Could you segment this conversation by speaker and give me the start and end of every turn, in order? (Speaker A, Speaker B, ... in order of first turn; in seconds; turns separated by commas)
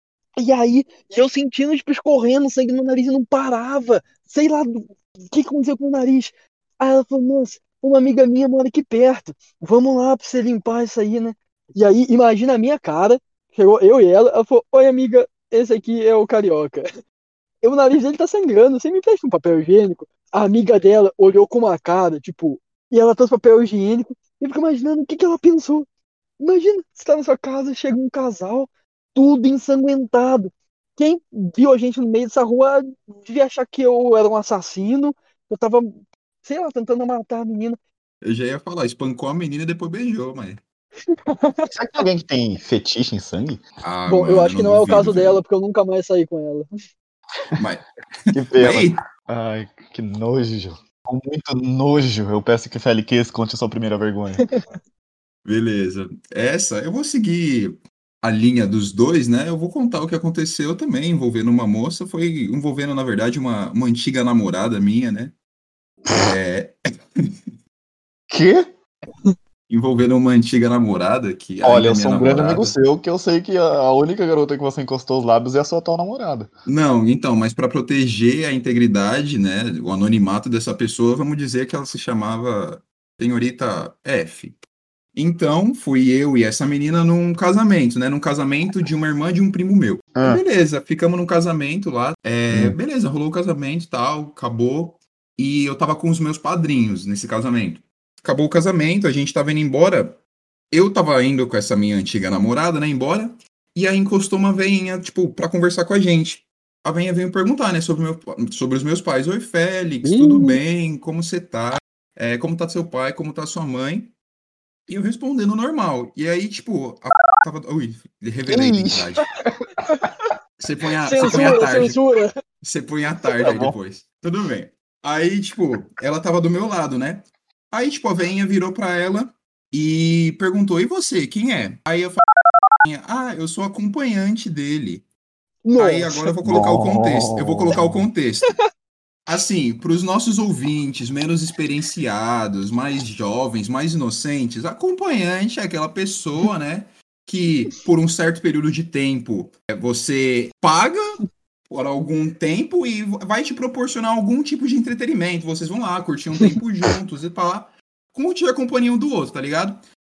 Speaker A: 0.4-16.8, Speaker A: 17.6-25.9, Speaker A: 26.4-37.8, Speaker B: 38.2-40.6, Speaker A: 41.3-41.7, Speaker C: 41.7-43.6, Speaker B: 43.8-45.4, Speaker A: 44.1-46.7, Speaker B: 47.5-47.9, Speaker C: 48.3-54.5, Speaker B: 48.6-49.0, Speaker B: 55.5-65.3, Speaker B: 66.1-66.7, Speaker C: 68.3-68.7, Speaker B: 69.7-72.7, Speaker C: 71.6-76.5, Speaker B: 76.7-84.6, Speaker B: 85.1-100.2, Speaker C: 90.2-90.4, Speaker C: 92.5-92.8, Speaker B: 100.7-114.1, Speaker A: 110.0-110.6, Speaker B: 114.9-119.3, Speaker C: 118.5-119.2, Speaker B: 120.6-122.0, Speaker A: 121.0-122.3, Speaker B: 122.6-132.2, Speaker C: 123.4-123.8, Speaker B: 132.8-135.1, Speaker A: 135.6-136.3, Speaker B: 135.8-138.5, Speaker C: 136.4-138.1, Speaker B: 139.2-159.8